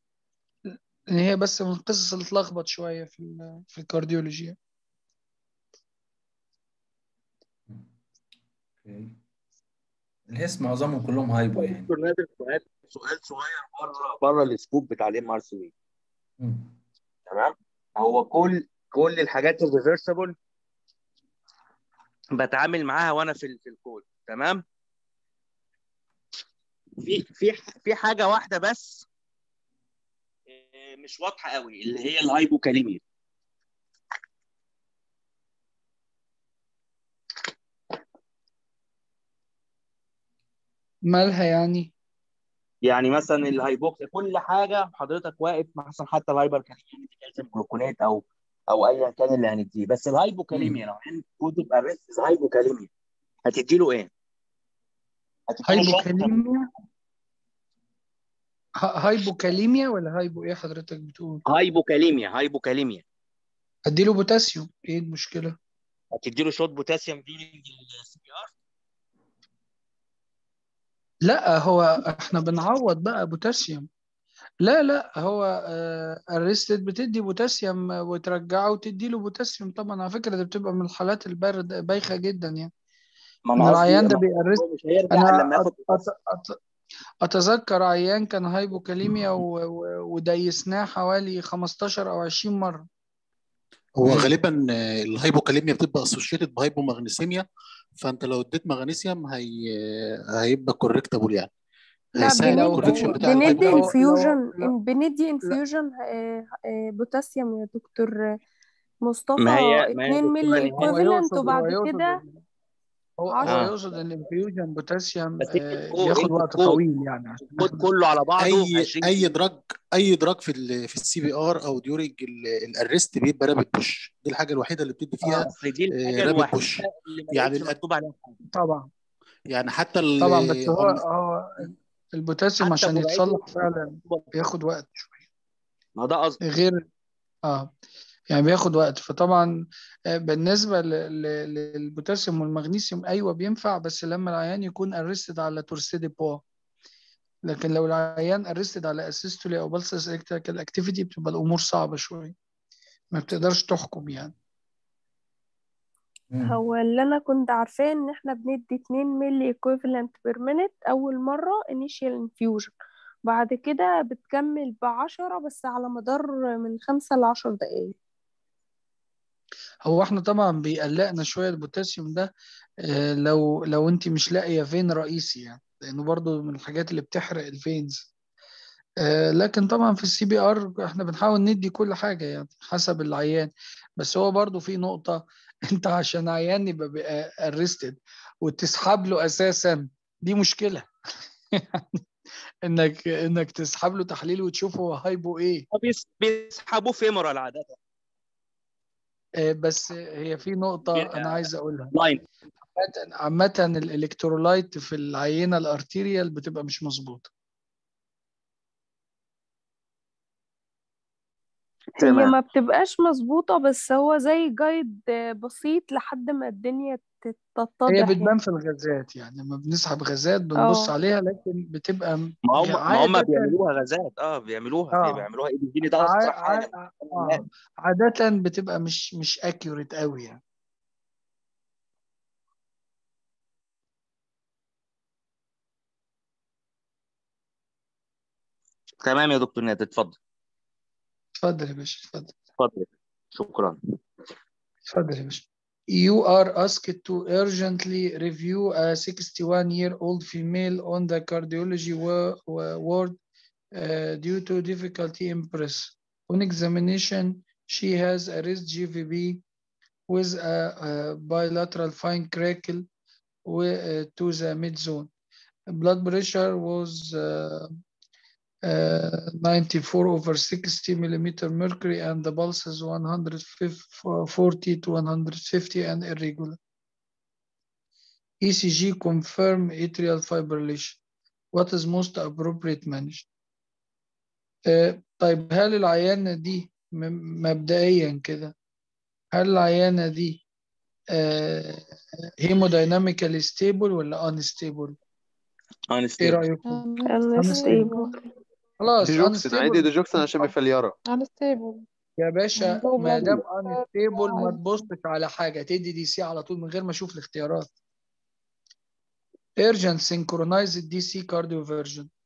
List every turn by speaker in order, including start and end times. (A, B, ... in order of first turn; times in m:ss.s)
0:00.7-0:04.6 A
0:08.8-0:09.2 B
0:10.3-0:11.9 B
0:11.6-0:15.7 C
0:16.4-0:16.8 B
0:17.3-0:20.3 C
0:22.3-0:24.6 C
0:27.0-0:29.1 C
0:30.5-0:33.0 C
0:41.1-0:41.9 A
0:42.8-0:52.9 C
0:50.5-0:50.8 B
0:53.4-0:54.1 C
0:55.5-0:56.4 C
0:55.6-0:56.6 A
0:58.8-1:01.4 A
1:01.5-1:03.0 C
1:03.9-1:05.6 A
1:06.1-1:08.5 C
1:11.2-1:13.9 A
1:14.6-1:22.7 A
1:23.4-1:26.1 C
1:23.6-1:26.6 A
1:27.2-1:32.8 A
1:34.0-1:37.4 D
1:34.0-1:34.3 B
1:38.0-1:41.5 D
1:42.2-1:43.9 D
1:42.2-1:48.1 E
1:42.4-1:44.7 A
1:49.0-1:52.2 E
1:49.4-1:50.9 C
1:50.6-1:52.4 A
1:53.2-1:57.9 A
1:53.3-1:53.8 E
1:53.4-1:53.7 C
1:55.4-1:56.8 C
1:57.6-1:59.2 C
1:58.4-2:07.8 D
2:05.4-2:08.4 C
2:08.5-2:08.9 A
2:09.5-2:11.0 D
2:10.2-2:15.2 A
2:12.6-2:13.4 C
2:14.0-2:14.3 C
2:16.0-2:16.4 C
2:16.4-2:16.8 A
2:17.4-2:17.7 A
2:18.3-2:19.5 A
2:20.1-2:26.4 A
2:27.5-2:32.4 A
2:33.1-2:34.3 A
2:36.3-2:36.6 B
2:36.4-2:42.7 E
2:43.3-2:47.9 E
2:49.8-2:52.3 A
2:52.9-2:58.1 A
2:59.0-3:10.9 A
3:11.5-3:12.0 A
3:12.6-3:15.6 A
3:15.7-3:17.8 C
3:19.4-3:21.9 A
3:20.9-3:22.2 C
3:22.8-3:27.3 A
3:32.0-3:38.3 E
3:32.0-3:32.4 C
3:37.9-3:43.5 A
3:40.6-3:40.9 E
3:42.5-3:47.4 C
3:44.9-3:45.3 A
3:46.0-3:50.4 A
3:59.0-4:00.2 C
4:01.4-4:02.3 A
4:02.6-4:03.8 C
4:04.9-4:13.2 A
4:13.7-4:19.4 A
4:20.1-4:22.9 A
4:23.4-4:25.1 A
4:25.7-4:27.7 A
4:28.7-4:36.6 A
4:38.4-4:41.0 A
4:41.5-4:43.3 A
4:44.7-4:48.5 A
4:49.3-4:50.4 A
4:51.1-4:51.9 A
4:52.4-4:55.0 A
4:55.9-4:56.4 C
4:56.2-4:56.8 A
4:56.6-4:58.2 F
4:57.0-4:58.3 E
4:57.4-4:57.8 A
4:58.8-5:00.5 A
4:59.0-5:01.0 G
5:01.0-5:01.8 F
5:02.2-5:07.7 A
5:02.6-5:04.8 F
5:09.6-5:12.1 A